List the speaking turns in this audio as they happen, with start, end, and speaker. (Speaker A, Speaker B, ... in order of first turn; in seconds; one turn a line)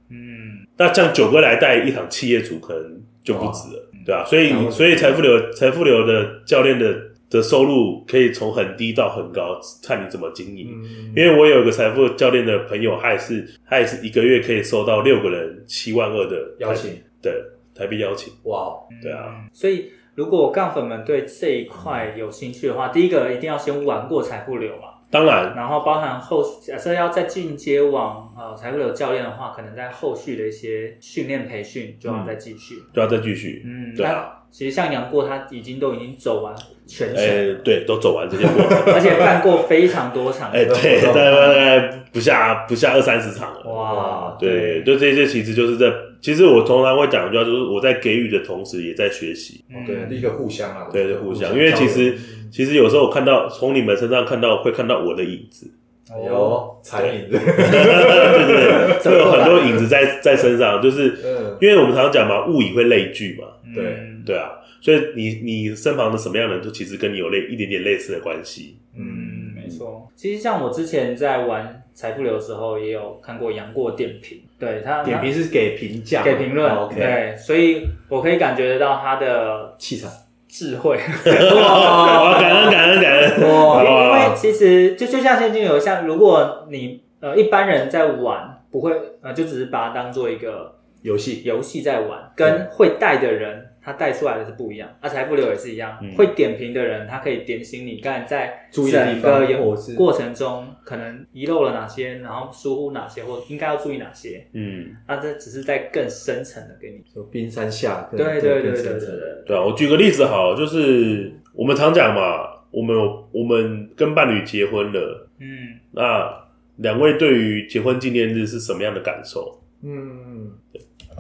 Speaker A: 0.1-0.7
Speaker B: 0.8-18.4
Speaker C: 3.3-3.7
Speaker C: 4.5-5.3
Speaker C: 10.6-11.2
Speaker C: 16.6-17.0
Speaker C: 18.4-18.9
Speaker A: 18.9-25.0
Speaker B: 19.0-19.4
Speaker B: 25.1-25.6
Speaker A: 25.5-32.9
Speaker B: 32.1-32.4
Speaker B: 32.9-34.3
Speaker A: 33.6-37.6
Speaker B: 37.1-39.4
Speaker A: 38.7-41.6
Speaker B: 40.5-49.7
Speaker C: 40.7-41.4
Speaker A: 43.6-44.9
Speaker C: 43.8-44.5
Speaker A: 49.7-50.2
Speaker C: 49.8-52.5
Speaker B: 50.9-55.7
Speaker A: 56.1-56.6
Speaker C: 56.1-59.8
Speaker B: 57.0-63.6
Speaker A: 58.9-59.8
Speaker C: 61.2-61.6
Speaker A: 63.6-64.3
Speaker C: 63.7-64.0
Speaker B: 64.2-68.9
Speaker A: 68.9-75.3
Speaker C: 69.0-69.6
Speaker C: 75.0-77.2
Speaker A: 76.2-79.8
Speaker C: 79.8-80.2
Speaker A: 80.5-90.8
Speaker B: 81.3-84.4
Speaker C: 81.4-82.8
Speaker C: 83.3-84.3
Speaker C: 91.0-91.5
Speaker A: 91.4-104.5
Speaker B: 96.0-96.3
Speaker C: 98.7-100.1
Speaker B: 104.5-105.0
Speaker A: 105.1-107.0
Speaker C: 107.1-109.3
Speaker A: 108.2-109.5
Speaker B: 109.5-115.2
Speaker A: 115.4-115.8
Speaker B: 115.9-119.6
Speaker C: 119.8-120.6